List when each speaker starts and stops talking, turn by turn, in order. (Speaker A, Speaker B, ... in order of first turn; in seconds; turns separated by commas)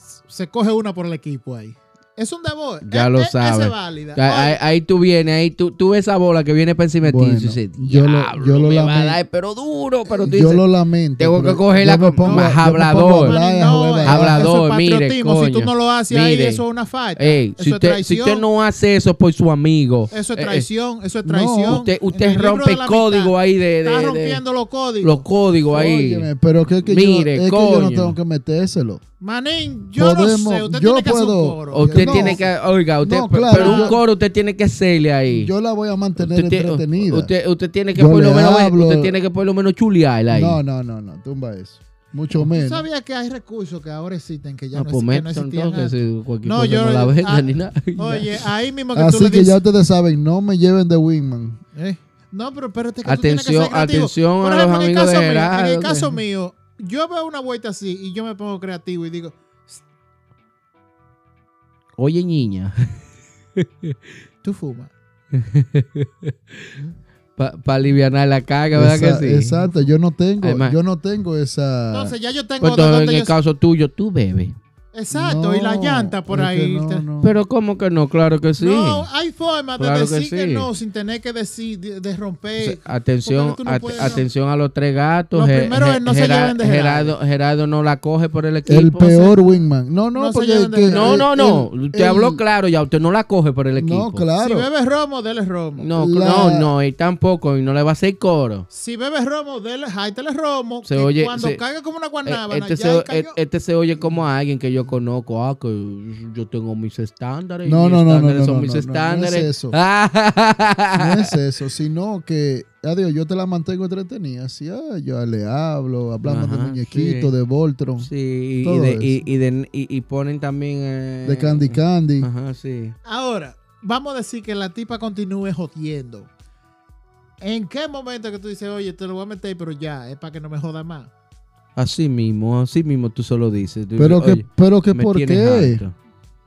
Speaker A: 0.1-4.6, Speaker B: 2.8-10.6, Speaker C: 7.0-9.2, Speaker C: 10.2-14.5, Speaker B: 11.2-13.4, Speaker A: 12.2-12.6, Speaker A: 13.2-18.4, Speaker B: 14.0-16.6, Speaker B: 17.1-20.7, Speaker A: 20.1-25.2, Speaker C: 21.2-21.8, Speaker B: 21.7-24.4, Speaker B: 25.0-26.3, Speaker C: 25.7-29.0, Speaker B: 26.8-28.1, Speaker A: 29.2-32.5, Speaker C: 30.0-32.4, Speaker B: 31.7-35.5, Speaker C: 33.0-34.0, Speaker A: 33.5-34.0, Speaker C: 35.3-37.3, Speaker B: 36.1-40.6, Speaker C: 37.9-39.1, Speaker C: 40.3-42.9, Speaker A: 42.4-49.6, Speaker B: 44.7-48.5, Speaker C: 48.9-51.6, Speaker A: 51.7-59.8, Speaker B: 53.0-56.2, Speaker B: 62.0-63.0, Speaker B: 63.5-64.0, Speaker A: 64.4-64.9, Speaker B: 65.3-66.7, Speaker B: 67.4-69.7, Speaker C: 68.7-72.1, Speaker B: 70.4-70.8, Speaker A: 71.9-73.3, Speaker B: 72.6-74.6, Speaker A: 74.9-77.0, Speaker C: 75.1-77.3, Speaker B: 77.2-79.1, Speaker A: 78.6-84.3, Speaker B: 79.8-80.7, Speaker B: 82.6-89.4, Speaker A: 85.3-87.1, Speaker C: 88.7-92.4, Speaker A: 89.1-89.5, Speaker A: 90.1-91.2, Speaker B: 90.9-94.2, Speaker C: 93.7-94.7, Speaker A: 94.4-95.9, Speaker B: 95.8-98.7, Speaker C: 96.0-96.7, Speaker A: 98.7-103.4, Speaker B: 100.8-101.6, Speaker B: 102.2-111.3, Speaker C: 107.6-109.8, Speaker C: 110.9-118.1, Speaker B: 116.2-117.3, Speaker B: 118.0-123.0, Speaker C: 118.6-119.2, Speaker C: 121.2-122.3, Speaker A: 123.0-126.3, Speaker A: 127.4-131.1, Speaker B: 131.8-135.9, Speaker C: 134.0-135.8